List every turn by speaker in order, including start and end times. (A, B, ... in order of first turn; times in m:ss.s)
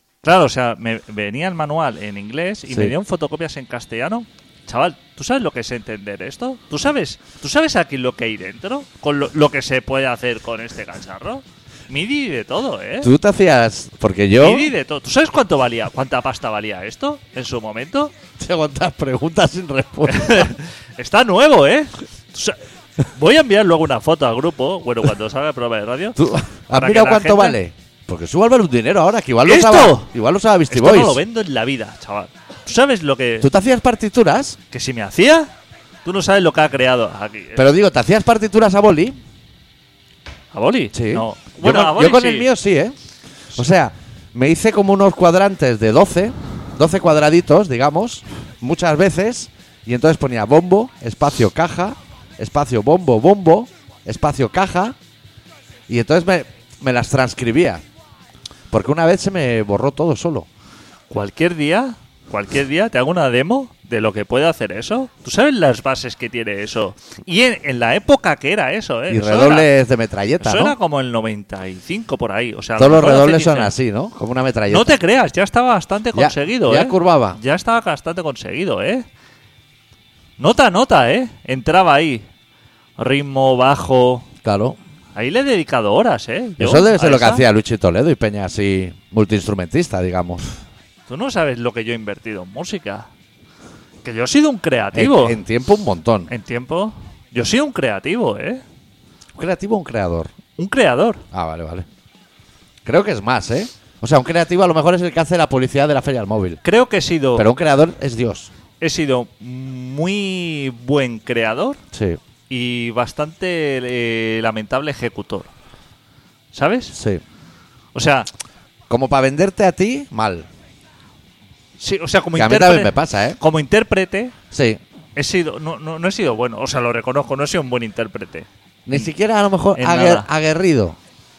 0:00.2-0:13.1 A
0:02.7-0:02.9 B
0:13.0-0:14.7 B
0:14.4-0:18.1 A
0:18.4-0:20.5 B
0:20.0-0:26.2 A
0:26.2-0:31.2 B
0:26.7-0:27.6 A
0:29.4-0:30.1 A
0:30.7-0:33.5 A
0:33.4-0:34.6 B
0:34.7-0:35.5 A
0:36.0-0:37.6 A
0:37.5-0:39.2 B
0:40.5-0:42.5 A
0:40.9-0:43.0 B
0:43.5-0:55.0 B
0:55.9-0:57.8 B
0:58.7-1:00.5 B
1:01.1-1:09.7 A
1:09.1-1:10.7 B
1:10.4-1:13.7 A
1:12.8-1:15.0 B
1:14.7-1:19.0 A
1:16.1-1:17.4 B
1:20.4-1:22.2 A
1:23.0-1:24.3 A
1:24.4-1:24.8 B
1:25.1-1:27.4 A
1:26.6-1:30.4 B
1:31.1-1:33.1 A
1:34.0-1:35.4 A
1:34.9-1:36.3 B
1:36.3-1:38.6 A
1:39.3-1:40.3 B
1:40.6-1:41.2 A
1:41.3-1:41.8 B
1:42.8-1:46.6 B
1:46.6-1:47.5 A
1:47.3-1:48.5 B
1:48.8-1:51.8 A
1:51.9-1:52.2 B
1:52.5-1:55.5 A
1:56.5-1:57.0 A
1:56.9-1:57.2 B
1:57.9-1:58.3 A
1:58.9-2:00.5 B
2:01.8-2:04.3 A
2:02.3-2:03.4 B
2:04.5-2:04.8 B
2:05.2-2:09.1 A
2:08.8-2:11.0 B
2:09.8-2:10.3 A